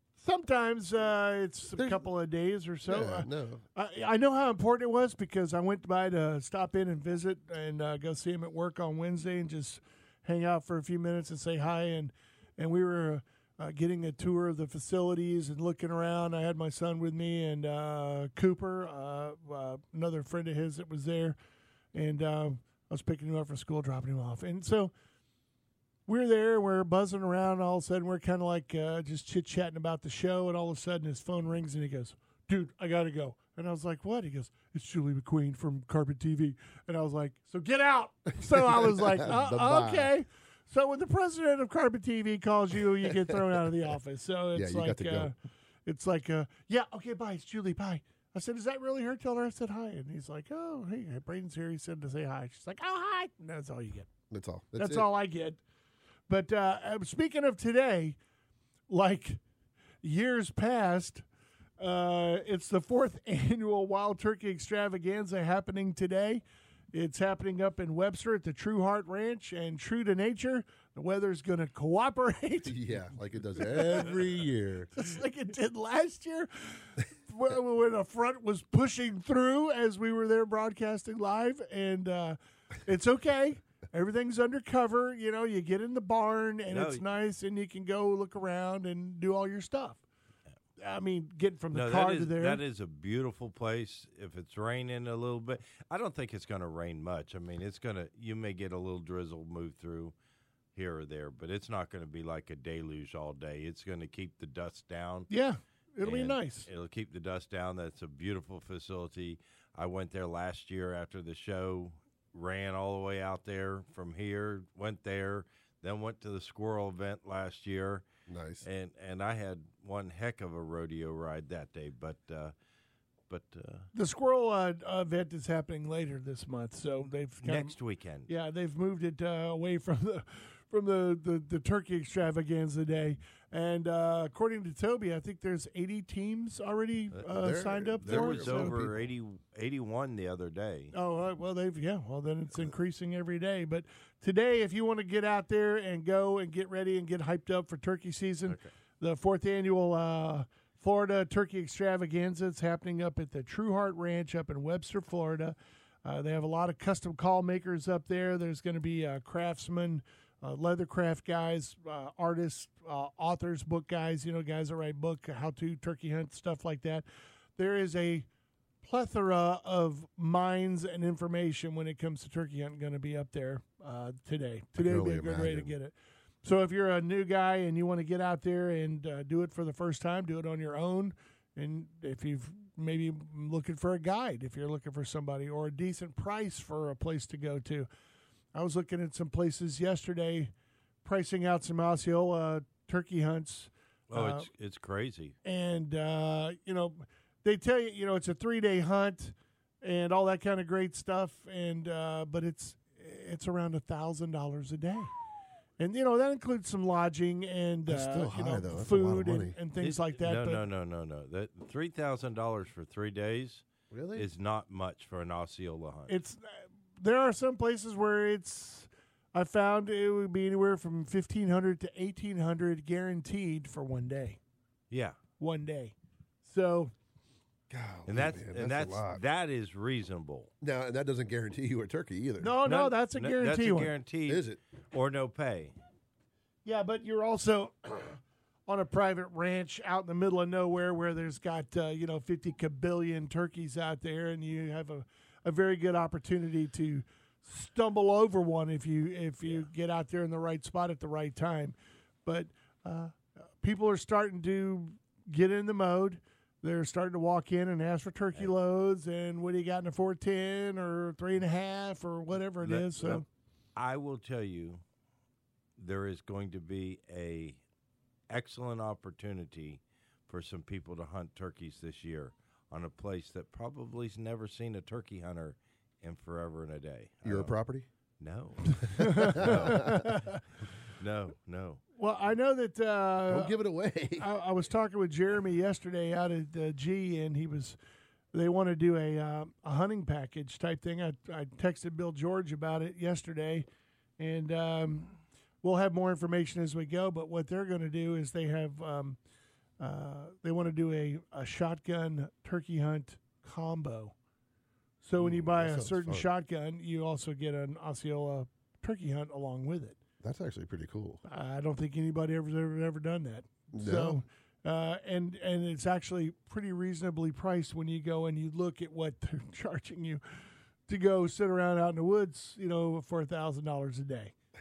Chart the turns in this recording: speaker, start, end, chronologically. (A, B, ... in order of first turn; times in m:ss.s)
0:00.2-0:21.4 A
0:01.8-0:02.0 B
0:02.9-0:03.6 B
0:21.9-0:24.9 A
0:26.1-0:45.3 A
0:38.5-0:40.1 B
0:43.1-0:43.5 B
0:44.6-0:45.3 B
0:45.9-0:54.1 A
0:54.3-0:55.1 B
0:54.8-0:55.6 A
0:56.3-0:58.2 A
0:58.9-0:59.4 A
1:00.0-1:01.2 A
1:01.8-1:12.8 A
1:12.7-1:14.9 B
1:13.6-1:14.1 A
1:15.0-1:30.0 A
1:26.7-1:27.0 C
1:30.8-1:32.6 A
1:31.7-1:40.1 C
1:40.8-1:45.3 C
1:45.3-1:46.7 A
1:46.0-1:58.0 C
1:58.3-1:58.7 B
1:58.6-2:02.5 C
2:03.3-2:03.9 C
2:03.9-2:07.8 A
2:07.4-2:08.3 C
2:08.3-2:18.8 A
2:17.2-2:19.0 B
2:18.0-2:20.9 C
2:20.9-2:47.0 A
2:47.6-2:48.3 A
2:48.8-3:07.9 A
2:54.8-2:55.7 B
3:08.5-3:10.5 A
3:11.0-3:14.5 A
3:14.1-3:15.4 C
3:15.4-3:25.1 A
3:25.8-3:30.6 A
3:27.9-3:29.6 B
3:29.8-3:36.1 C
3:33.9-3:34.3 B
3:36.1-3:44.4 A
3:44.9-3:45.2 C
3:45.4-3:46.9 A
3:47.7-3:49.2 B
3:48.1-3:50.5 C
3:50.6-3:52.6 B
3:52.4-3:53.9 A
3:52.6-3:55.8 C
3:54.3-3:54.6 B
3:56.6-4:11.8 A
4:12.3-4:23.3 A
4:22.6-4:23.2 C
4:23.8-4:24.8 C
4:25.8-4:27.6 C
4:28.3-4:37.5 C
4:37.2-4:37.9 B
4:38.2-4:40.2 C
4:39.0-4:40.4 A
4:39.0-4:40.1 B
4:40.9-4:41.8 C
4:42.0-4:43.6 A
4:43.3-4:44.3 B
4:44.2-4:47.8 A
4:48.3-4:53.7 A
4:54.2-4:59.2 A
4:59.8-5:04.2 A
5:05.0-5:10.0 A
5:05.2-5:06.3 B
5:10.2-5:11.2 B
5:11.3-5:20.2 A
5:13.7-5:14.2 B
5:20.9-5:24.4 A